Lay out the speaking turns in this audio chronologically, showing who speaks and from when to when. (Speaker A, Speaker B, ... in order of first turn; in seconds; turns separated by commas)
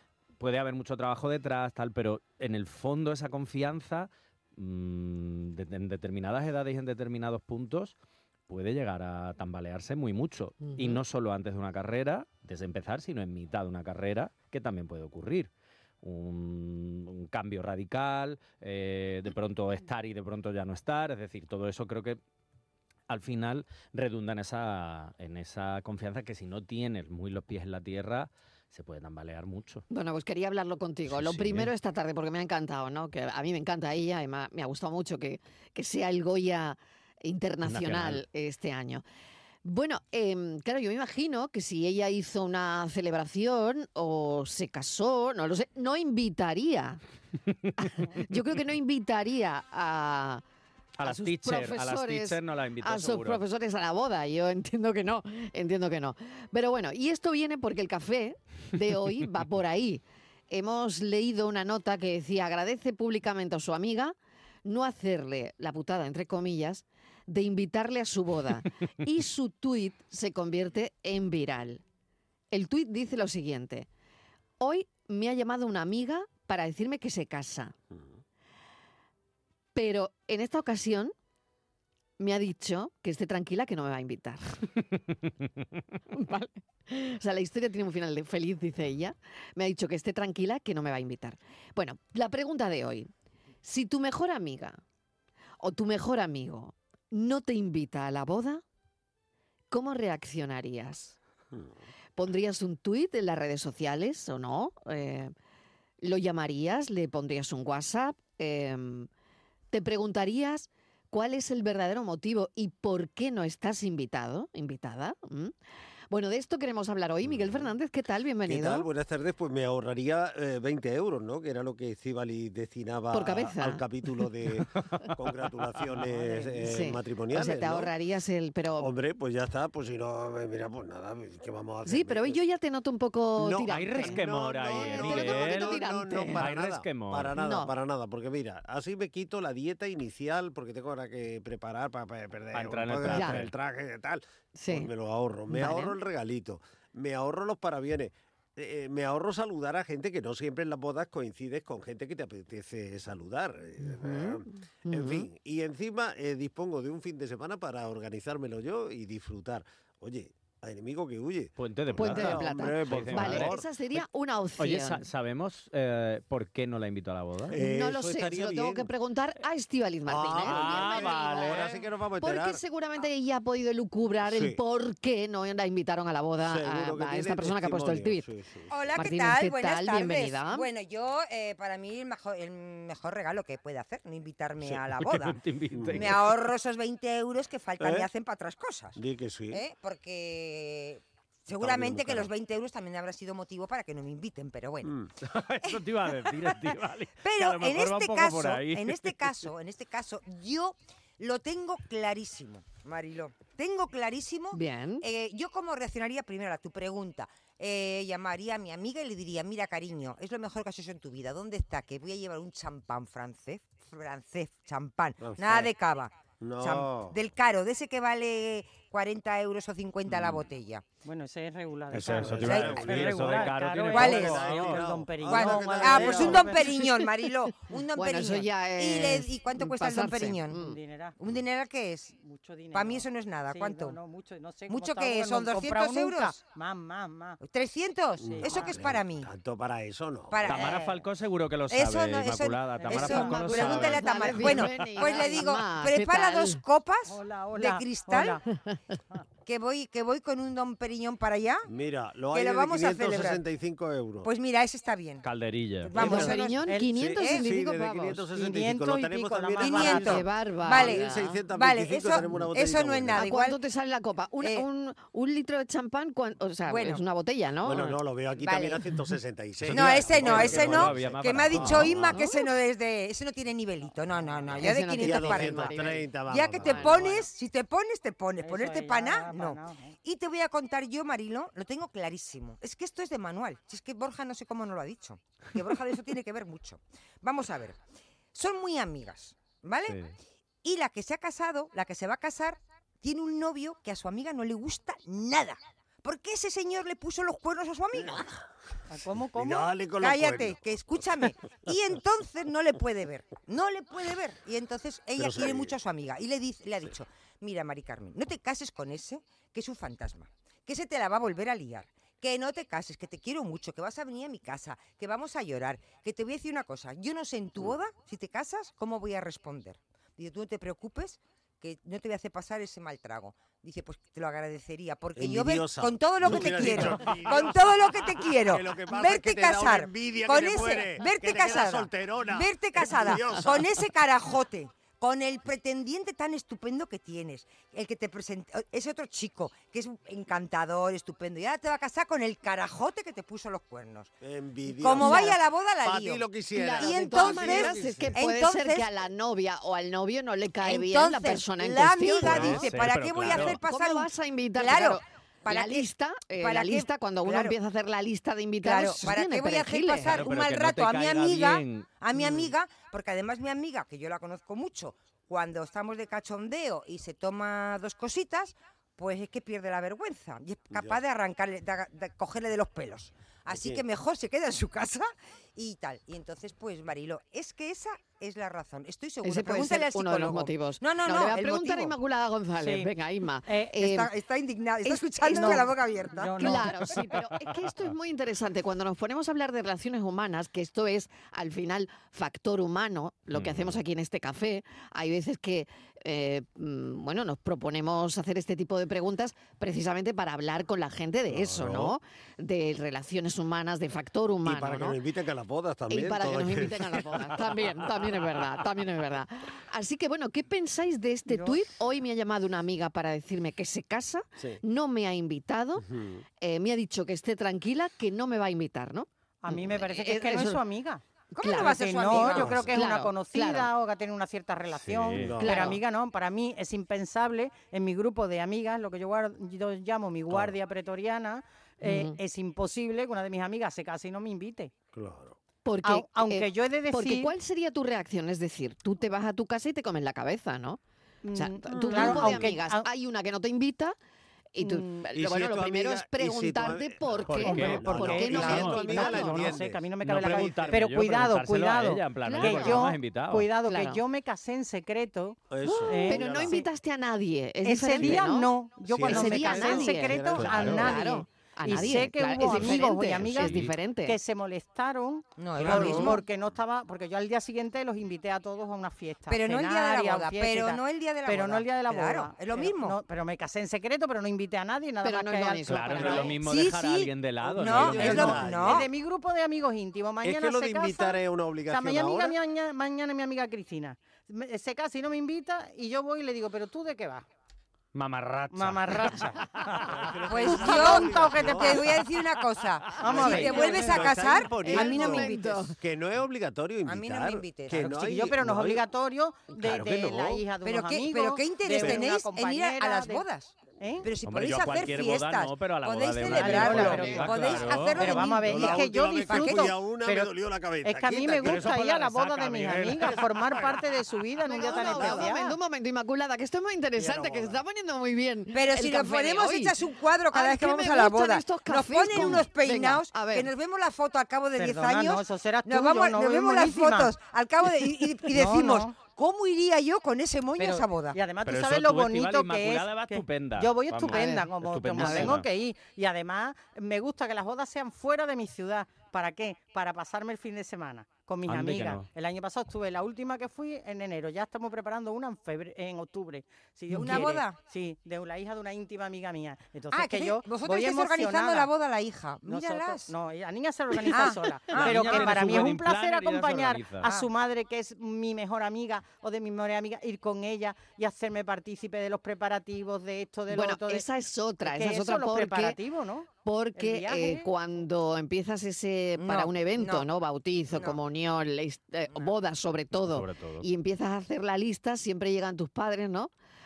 Speaker A: 0.4-8.0, Speaker A: 8.5-15.5, Speaker B: 10.6-11.0, Speaker A: 16.0-22.2, Speaker A: 23.1-29.8, Speaker B: 29.9-39.0, Speaker A: 31.1-31.7, Speaker A: 37.7-38.2, Speaker B: 39.6-47.0, Speaker B: 47.8-50.4, Speaker A: 51.0-53.4, Speaker B: 51.0-71.8, Speaker B: 72.5-73.9, Speaker B: 74.6-77.8, Speaker B: 79.8-81.1, Speaker B: 82.2-84.5, Speaker B: 86.1-93.1, Speaker B: 93.6-94.8, Speaker B: 95.6-98.6, Speaker B: 99.7-101.2, Speaker B: 102.2-105.3, Speaker B: 106.0-109.1, Speaker B: 109.7-115.5, Speaker B: 116.1-118.9, Speaker C: 117.3-117.7, Speaker C: 118.5-127.9, Speaker B: 123.1-123.8, Speaker B: 126.6-128.9, Speaker C: 128.8-132.4, Speaker B: 131.9-136.5, Speaker C: 133.4-163.7, Speaker A: 133.7-137.3, Speaker B: 137.4-137.7, Speaker A: 142.5-143.5, Speaker B: 143.1-143.4, Speaker B: 144.6-144.9, Speaker B: 145.5-146.0, Speaker B: 153.8-155.3, Speaker A: 161.6-163.6, Speaker B: 162.0-165.0, Speaker A: 164.6-167.6, Speaker C: 167.5-168.9, Speaker B: 167.6-171.6, Speaker C: 170.1-172.6, Speaker A: 170.4-171.8, Speaker B: 172.2-178.3, Speaker C: 174.2-174.6, Speaker C: 176.4-178.7, Speaker D: 178.7-185.4, Speaker B: 178.9-180.7, Speaker A: 184.8-186.3, Speaker C: 185.7-186.2, Speaker D: 185.9-189.0, Speaker C: 187.8-188.1, Speaker C: 189.0-189.6, Speaker D: 189.5-194.9, Speaker C: 191.6-192.3, Speaker A: 195.2-199.5, Speaker D: 197.2-220.9, Speaker B: 204.5-205.1, Speaker C: 215.2-215.7, Speaker C: 216.4-217.2, Speaker C: 220.1-220.4, Speaker E: 221.0-226.8, Speaker A: 221.9-224.8, Speaker C: 221.9-226.7, Speaker D: 222.5-222.9, Speaker D: 223.9-224.3, Speaker D: 225.3-230.7, Speaker B: 227.9-230.8, Speaker E: 230.6-231.2, Speaker D: 231.2-232.2, Speaker E: 232.2-237.4, Speaker D: 232.7-234.0, Speaker D: 234.7-236.4, Speaker D: 237.4-239.3, Speaker C: 238.2-240.6, Speaker E: 238.3-238.8, Speaker D: 240.3-240.9, Speaker A: 240.4-244.6, Speaker E: 240.6-241.0, Speaker D: 241.7-248.4, Speaker E: 242.8-244.0, Speaker B: 243.6-246.6, Speaker E: 245.0-245.4, Speaker E: 247.1-248.4, Speaker D: 249.4-251.7, Speaker C: 251.7-254.3, Speaker D: 252.3-253.4, Speaker D: 254.2-255.3, Speaker A: 255.2-255.9, Speaker D: 255.8-257.5, Speaker C: 255.9-263.2, Speaker B: 256.0-258.3, Speaker E: 256.6-256.9, Speaker E: 258.3-260.2, Speaker D: 259.6-263.6, Speaker B: 260.0-261.4, Speaker B: 263.1-267.9, Speaker D: 266.7-267.0, Speaker C: 267.6-272.3, Speaker D: 268.4-268.8, Speaker A: 269.6-272.0, Speaker D: 269.7-287.8, Speaker B: 272.1-272.4, Speaker B: 274.6-276.1, Speaker C: 274.7-277.2, Speaker B: 276.6-277.1, Speaker E: 278.4-279.9, Speaker D: 288.3-290.0, Speaker A: 289.9-290.1, Speaker D: 290.6-298.3, Speaker C: 298.0-298.3, Speaker E: 298.9-299.7, Speaker C: 299.4-301.3, Speaker D: 300.0-344.1, Speaker C: 305.2-305.8, Speaker C: 325.1-333.7, Speaker C: 344.2-348.1, Speaker D: 344.7-348.9, Speaker B: 345.0-345.4, Speaker B: 346.6-352.7, Speaker D: 350.6-357.6, Speaker A: 352.2-353.6, Speaker B: 353.3-360.2, Speaker D: 358.6-382.0, Speaker A: 360.0-361.9, Speaker C: 362.2-362.4, Speaker C: 370.7-371.0, Speaker C: 373.5-373.8, Speaker B: 379.2-384.1, Speaker E: 382.6-382.9, Speaker E: 383.5-383.7, Speaker D: 383.8-386.6, Speaker B: 384.8-385.7, Speaker E: 385.3-386.9, Speaker B: 386.4-405.0, Speaker A: 393.3-393.8, Speaker C: 401.4-401.9, Speaker C: 404.4-407.4, Speaker B: 405.9-415.9, Speaker E: 411.3-411.6, Speaker C: 415.8-416.2, Speaker B: 416.4-420.6, Speaker E: 419.4-434.7, Speaker B: 421.3-423.7, Speaker D: 421.4-422.7, Speaker A: 424.8-425.4, Speaker C: 425.2-425.7, Speaker B: 425.4-425.8, Speaker B: 431.8-432.2, Speaker C: 434.9-435.4, Speaker B: 435.6-440.8, Speaker E: 435.8-437.3, Speaker E: 441.2-442.9, Speaker B: 441.4-444.0, Speaker C: 441.7-442.5, Speaker B: 444.6-449.5, Speaker E: 444.6-445.0, Speaker C: 445.1-450.9, Speaker A: 447.3-449.0, Speaker E: 447.4-456.7, Speaker A: 450.0-453.5, Speaker B: 452.2-452.9, Speaker B: 453.7-454.0, Speaker C: 455.5-456.6, Speaker B: 455.6-464.2, Speaker E: 457.6-476.4, Speaker C: 458.9-461.0, Speaker A: 460.4-460.9, Speaker A: 463.2-463.7, Speaker D: 465.4-466.2, Speaker C: 465.6-466.1, Speaker B: 465.7-466.1, Speaker D: 469.3-473.0, Speaker B: 475.0-476.3, Speaker A: 475.7-478.5, Speaker D: 476.3-478.9, Speaker C: 477.5-478.9, Speaker E: 478.0-481.2, Speaker C: 480.2-482.4, Speaker E: 481.7-487.2, Speaker A: 487.9-490.2, Speaker E: 488.5-489.4, Speaker C: 489.8-492.0, Speaker D: 490.3-495.7, Speaker E: 490.4-491.9, Speaker E: 493.0-494.1, Speaker C: 493.0-498.8, Speaker B: 494.6-495.8, Speaker D: 496.9-497.9, Speaker E: 497.9-503.2, Speaker C: 499.6-500.4, Speaker D: 500.6-509.7, Speaker E: 503.8-504.1, Speaker A: 504.2-508.3, Speaker E: 506.3-510.3, Speaker B: 506.6-507.3, Speaker C: 508.4-511.8, Speaker E: 510.8-515.6, Speaker A: 511.4-513.3, Speaker C: 513.0-513.9, Speaker B: 514.5-519.8, Speaker C: 514.6-515.2, Speaker C: 517.0-517.6, Speaker D: 518.5-531.2, Speaker B: 520.3-523.5, Speaker E: 524.6-527.1, Speaker E: 528.3-529.0, Speaker E: 530.6-551.7, Speaker A: 531.5-535.5, Speaker B: 534.1-535.4, Speaker A: 541.5-542.1, Speaker D: 546.9-547.6, Speaker D: 549.9-553.1, Speaker E: 552.5-564.0, Speaker D: 554.1-555.7, Speaker A: 554.7-557.2, Speaker B: 563.5-565.8, Speaker E: 564.6-567.5, Speaker B: 566.5-576.3, Speaker D: 569.2-570.1, Speaker D: 570.7-571.0, Speaker A: 573.0-573.6